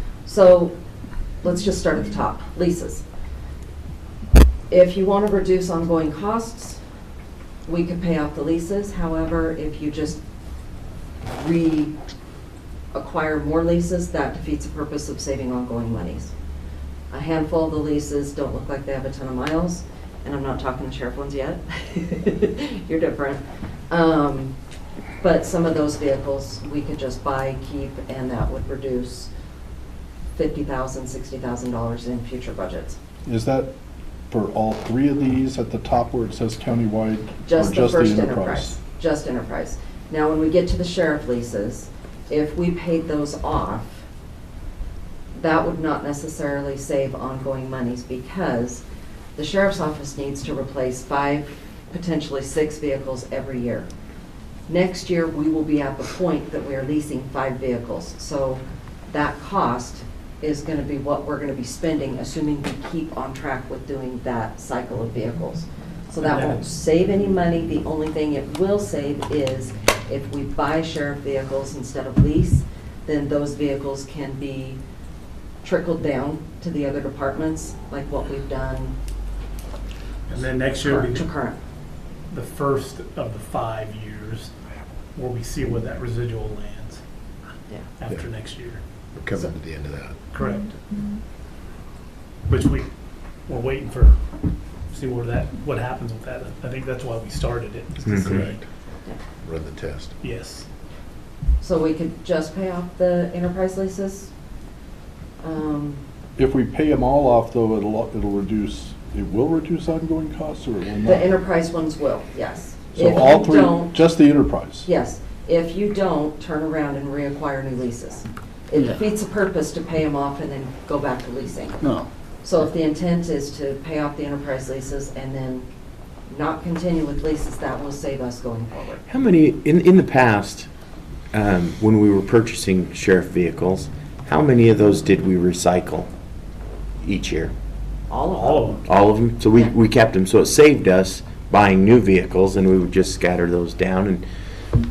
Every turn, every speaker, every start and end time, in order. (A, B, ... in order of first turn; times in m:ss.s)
0:00.2-0:00.7 A
0:01.4-0:03.0 A
0:04.7-0:06.8 A
0:07.6-0:10.2 A
0:11.3-0:11.9 A
0:12.9-0:16.3 A
0:17.1-0:24.5 A
0:25.2-0:29.3 A
0:30.3-0:33.0 A
0:33.2-0:33.7 B
0:34.3-0:38.8 B
0:37.4-0:44.0 A
0:45.3-0:48.8 A
0:49.4-0:53.9 A
0:54.7-1:14.8 A
1:06.2-1:06.6 C
1:15.6-1:18.9 A
1:20.3-1:21.3 C
1:20.8-1:21.6 A
1:22.3-1:24.5 C
1:25.2-1:27.0 C
1:28.0-1:28.8 C
1:29.1-1:30.2 D
1:30.3-1:30.8 C
1:32.5-1:32.9 C
1:33.5-1:34.2 C
1:34.9-1:38.6 C
1:38.2-1:38.5 D
1:39.4-1:40.1 D
1:40.2-1:40.6 C
1:41.6-1:44.3 A
1:45.4-1:46.0 A
1:46.4-1:51.3 B
1:51.0-1:54.0 A
1:52.9-1:54.9 B
1:54.8-2:01.8 A
2:02.4-2:05.7 A
2:06.3-2:09.0 A
2:09.1-2:10.7 E
2:11.3-2:16.1 E
2:17.0-2:17.5 E
2:18.1-2:18.8 A
2:18.4-2:18.8 C
2:18.8-2:24.2 E